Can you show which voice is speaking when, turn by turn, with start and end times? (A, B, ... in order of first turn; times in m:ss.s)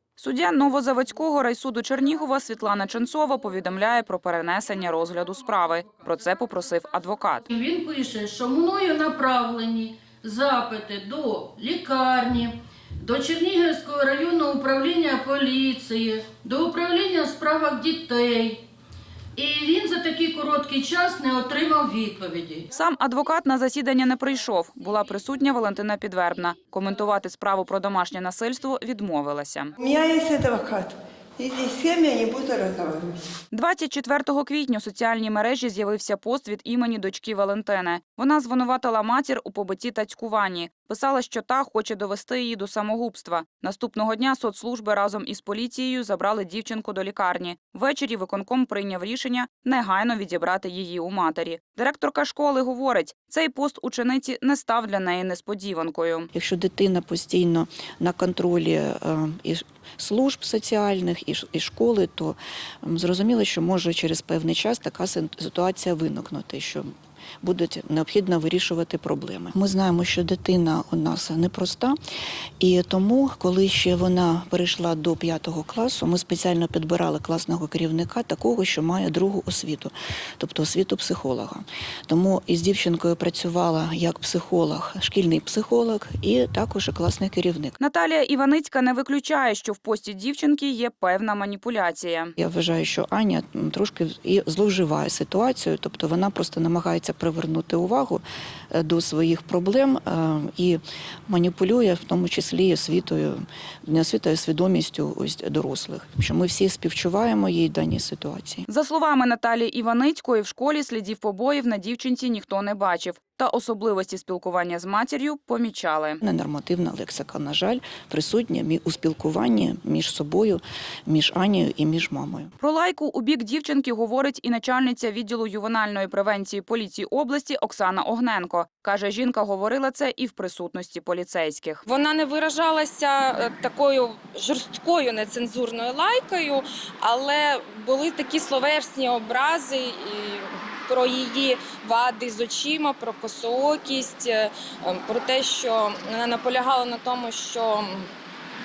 0:00.2-0:07.4 A
0:07.5-0:18.6 B
0:19.4-0:22.7 B
0:22.7-0:29.7 A
0:29.8-0:33.2 C
0:33.5-0:56.3 A
0:56.3-1:12.0 D
1:12.6-1:27.8 D
1:27.8-1:32.3 A
1:32.4-1:48.6 D
1:48.7-1:56.2 A
1:56.2-2:02.5 D
2:02.6-2:11.8 A
2:11.9-2:28.1 E